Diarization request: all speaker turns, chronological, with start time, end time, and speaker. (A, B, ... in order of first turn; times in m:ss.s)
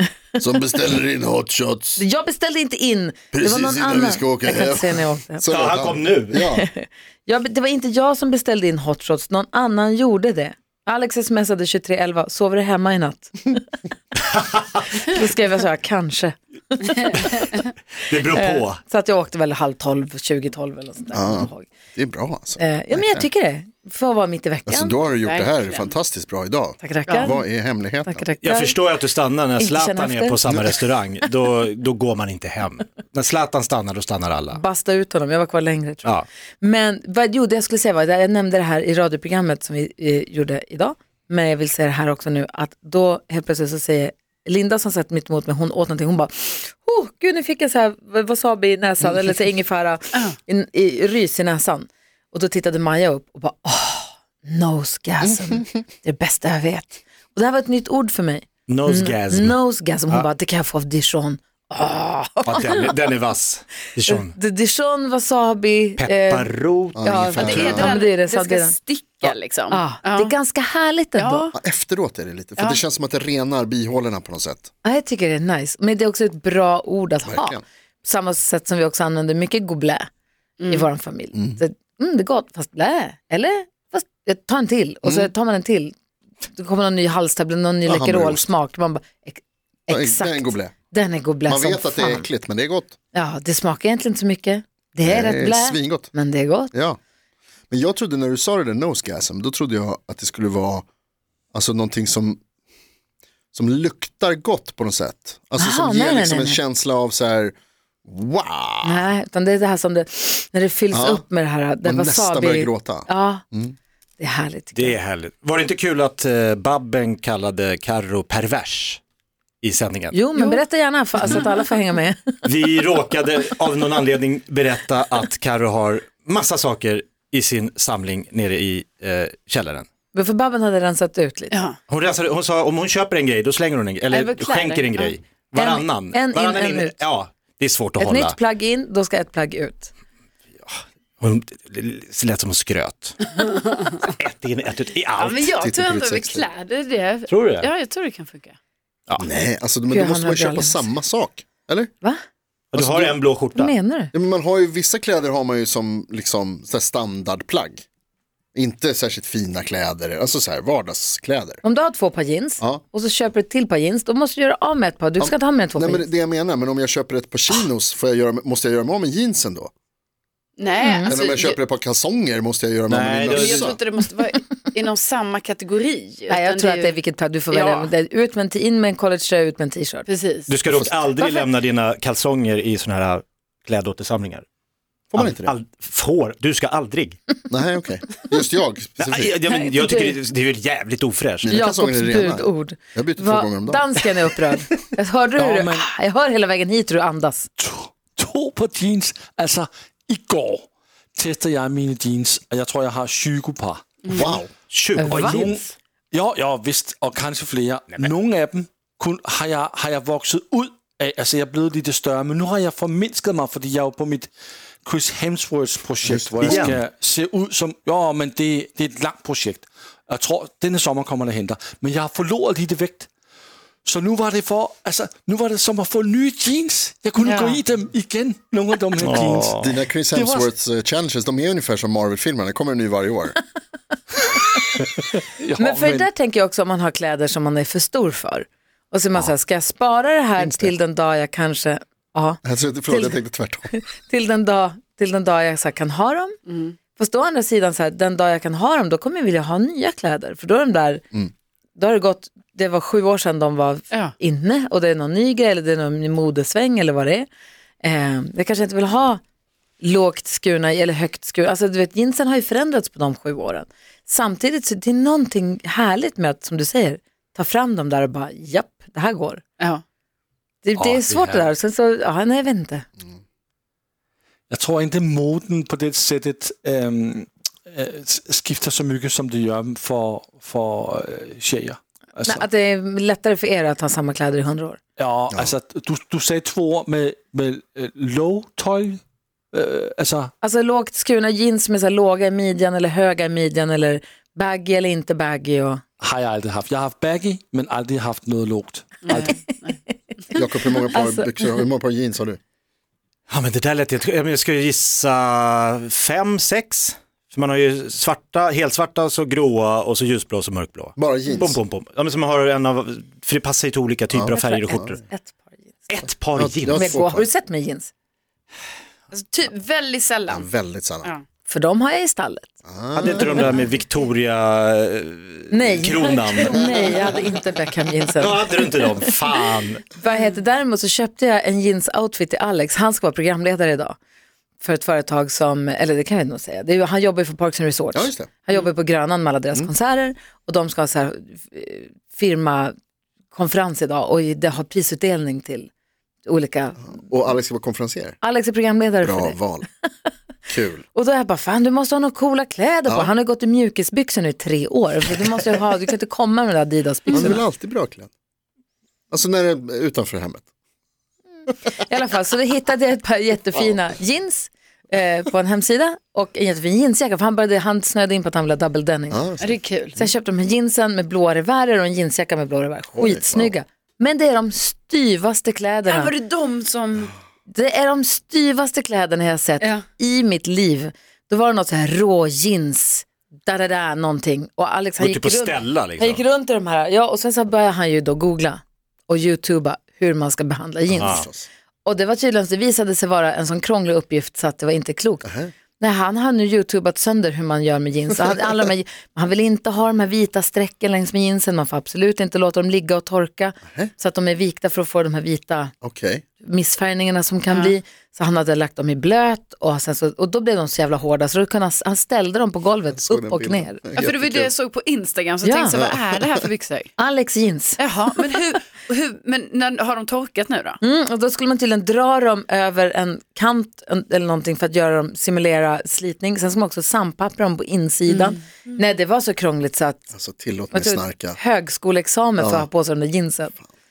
0:00.4-0:02.0 A
0:02.0-0:05.4 B
0:03.3-0:06.6 A
0:05.5-0:06.4 C
0:06.6-0:13.6 B
0:14.3-0:14.6 C
0:15.0-0:17.5 B
0:18.0-0:18.8 C
0:18.3-0:21.7 B
0:21.1-0:23.3 A
0:22.6-0:25.0 B
0:24.7-0:28.2 A
0:25.2-0:25.9 D
0:26.8-0:27.3 B
0:27.1-0:27.3 D
0:28.0-0:28.8 B
0:28.4-0:34.6 C
0:29.6-0:30.4 B
0:34.5-0:36.1 B
0:36.6-1:02.8 B
0:55.2-0:55.6 A
0:58.7-0:59.6 C
1:02.4-1:04.3 C
1:04.1-1:06.5 B
1:06.0-1:07.8 C
1:07.0-1:07.9 A
1:07.0-1:11.5 B
1:07.4-1:10.3 D
1:11.2-1:11.5 D
1:11.5-1:14.7 A
1:14.8-1:20.1 B
1:17.2-1:17.6 A
1:20.6-1:20.9 D
1:20.7-1:25.9 B
1:21.3-1:21.6 A
1:25.0-1:25.3 A
1:26.5-1:32.3 B
1:27.8-1:28.5 A
1:29.9-1:30.7 A
1:31.5-1:33.0 A
1:33.1-1:36.7 B
1:35.0-1:36.1 A
1:36.7-1:37.0 A
1:37.7-1:40.8 A
1:41.5-1:42.4 A
1:43.5-1:47.5 A
1:45.6-1:46.6 B
1:48.0-1:49.1 A
1:48.8-1:53.4 B
1:50.9-1:51.2 A
1:51.8-1:53.8 A
1:54.2-1:55.0 B
1:54.7-1:59.0 C
1:59.6-2:00.2 C
2:00.1-2:02.3 B
2:02.4-2:09.9 C
2:10.1-2:11.6 B
2:11.5-2:11.8 D
2:11.9-2:18.4 C
2:14.1-2:15.2 D
2:15.6-2:17.0 B
2:18.0-2:19.9 B
2:20.6-2:23.2 C
2:23.4-2:24.1 D
2:24.1-2:25.5 C
2:25.2-2:28.6 D
2:25.6-2:26.5 A
2:27.3-2:27.7 C
2:29.2-2:31.9 A
2:29.9-2:30.9 B
2:32.7-2:33.7 C
2:32.7-2:33.2 A
2:33.5-2:34.1 B
2:34.1-2:37.8 A
2:38.5-2:41.6 A
2:41.6-2:46.1 B
2:45.2-2:49.7 A
2:50.6-2:51.6 D
2:50.8-2:51.1 B
2:51.1-2:53.8 A
2:52.9-2:53.7 C
2:53.3-2:57.0 D
2:56.3-3:00.1 B
2:57.5-2:57.9 D
3:00.1-3:00.5 D
3:00.5-3:04.4 C
3:01.2-3:01.4 D
3:05.1-3:05.5 A
3:05.1-3:07.2 C
3:07.5-3:09.3 A
3:09.0-3:11.6 C
3:11.4-3:13.8 A
3:11.5-3:17.5 B
3:15.4-3:15.8 E
3:17.6-3:23.9 E
3:24.0-3:24.3 D
3:24.1-3:24.5 A
3:24.7-3:25.7 C
3:25.0-3:25.4 B
3:25.0-3:34.3 E
3:34.8-3:43.1 E
3:36.0-3:36.8 A
3:36.4-3:36.8 C
3:43.8-3:50.5 E
3:47.2-3:47.6 D
3:49.0-3:49.6 C
3:49.6-3:53.4 A
3:55.4-3:56.1 E
3:55.6-4:03.2 B
4:00.4-4:00.7 A
4:02.4-4:03.7 A
4:03.7-4:06.3 B
4:06.5-4:06.8 D
4:06.9-4:11.0 B
4:11.8-4:17.3 B
4:17.8-4:19.2 B
4:19.8-4:29.4 B
4:30.6-4:32.8 B
4:30.8-4:31.5 C
4:34.5-4:42.4 E
4:42.2-4:44.8 B
4:45.0-4:49.0 E
4:49.5-4:50.3 E
4:50.4-4:55.8 B
4:56.0-4:59.4 E
4:59.0-4:59.8 D
5:00.3-5:01.3 B
5:00.3-5:02.4 A
5:03.3-5:15.0 C
5:11.0-5:11.6 A
5:14.1-5:15.0 A
5:14.3-5:15.8 B
5:15.9-5:17.0 C
5:16.3-5:17.3 A
5:16.7-5:17.9 B
5:19.1-5:20.5 D
5:20.3-5:21.1 A
5:21.4-5:22.5 B
5:22.6-5:23.6 A
5:22.9-5:26.9 C
5:25.5-5:29.1 B
5:26.4-5:27.2 A
5:28.2-5:29.9 C
5:29.9-5:34.0 B
5:34.6-5:42.7 B
5:37.9-5:38.3 A
5:43.3-5:45.7 B
5:46.2-5:46.8 B
5:46.8-5:48.2 A
5:48.2-5:49.4 B
5:49.0-5:49.7 A
5:50.5-5:50.8 A
5:50.9-5:57.4 B
5:52.9-5:53.1 A
5:57.1-5:58.1 A
5:59.1-6:00.4 A
6:01.8-6:09.2 B
6:09.1-6:09.6 A
6:09.4-6:10.1 D
6:10.0-6:16.1 B
6:12.9-6:13.5 A
6:15.8-6:17.1 D
6:17.5-6:31.3 B
6:19.6-6:19.8 D
6:25.0-6:26.2 C
6:30.9-6:31.5 A
6:31.8-6:45.7 B
6:35.2-6:35.5 A
6:45.8-6:46.2 A
6:46.4-6:53.8 B
6:53.0-6:54.5 A
6:53.9-6:56.9 D
6:55.4-6:55.7 B
6:55.8-6:56.3 A
6:57.0-6:57.8 B
6:57.8-7:00.8 D
7:00.8-7:10.1 B
7:08.1-7:08.4 D
7:10.1-7:11.4 A
7:10.7-7:13.6 B
7:12.4-7:12.7 A